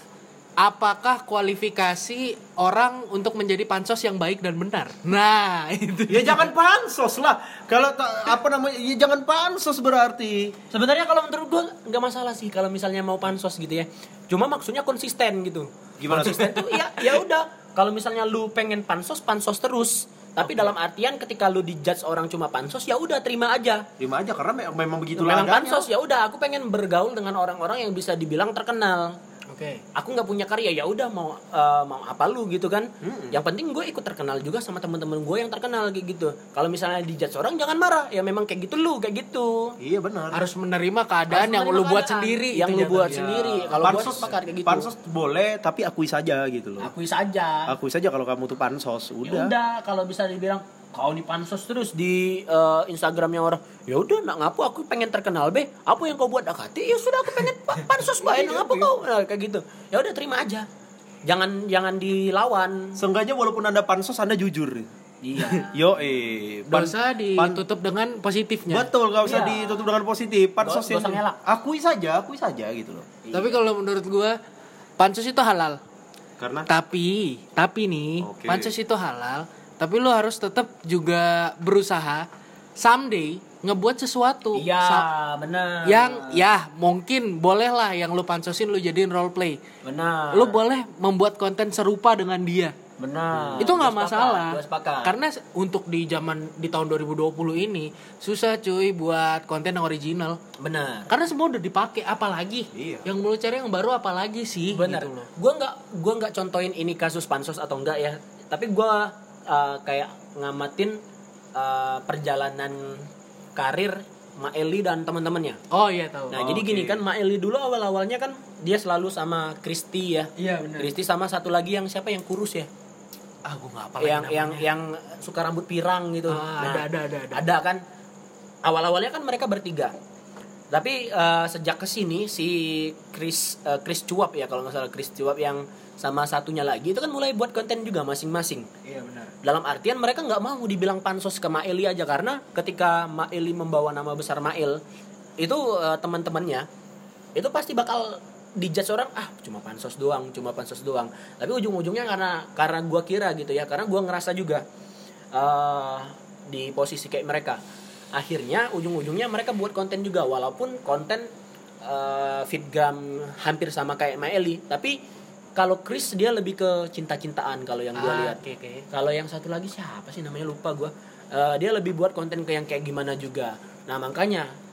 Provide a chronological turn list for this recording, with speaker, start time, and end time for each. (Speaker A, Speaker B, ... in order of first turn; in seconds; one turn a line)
Speaker A: 0.6-6.5
Speaker B: 6.1-10.6
Speaker C: 10.7-23.9
Speaker B: 16.0-16.9
Speaker B: 24.0-25.9
Speaker C: 25.2-29.2
Speaker A: 29.5-29.8
Speaker C: 29.9-39.8
Speaker B: 33.0-33.4
Speaker B: 39.8-40.4
Speaker A: 40.3-43.9
Speaker C: 41.3-44.9
Speaker B: 43.8-46.9
Speaker C: 46.8-47.8
Speaker B: 47.7-49.5
Speaker C: 49.2-60.7
Speaker B: 58.2-58.9
Speaker C: 61.2-63.0
Speaker B: 63.0-64.9
Speaker C: 65.2-65.7
Speaker B: 65.7-67.6
Speaker A: 66.7-68.9
Speaker B: 68.7-73.1
Speaker C: 69.2-69.9
Speaker C: 70.6-71.4
Speaker C: 73.2-73.6
Speaker A: 73.3-74.4
Speaker A: 75.0-75.8
Speaker B: 76.4-76.7
Speaker A: 76.7-82.3
Speaker B: 78.2-78.7
Speaker A: 82.8-85.1
Speaker C: 84.5-86.4
Speaker A: 85.8-89.6
Speaker C: 89.8-90.6
Speaker A: 90.3-92.7
Speaker C: 93.0-95.2
Speaker B: 93.3-93.7
Speaker A: 93.6-100.4
Speaker C: 100.6-101.1
Speaker A: 101.1-105.3
Speaker B: 102.7-103.1
Speaker C: 104.7-111.0
Speaker C: 111.5-115.6
Speaker A: 115.7-116.6
Speaker C: 116.3-122.7
Speaker B: 116.5-117.0
Speaker A: 120.4-120.9
Speaker A: 123.5-124.7
Speaker C: 124.0-127.8
Speaker A: 126.3-127.4
Speaker C: 128.6-129.9
Speaker C: 130.7-144.8
Speaker C: 145.4-146.7
Speaker C: 147.3-154.6
Speaker C: 155.3-157.6
Speaker C: 158.1-161.3
Speaker C: 161.8-165.0
Speaker C: 165.6-168.4
Speaker A: 168.0-168.8
Speaker C: 168.9-174.5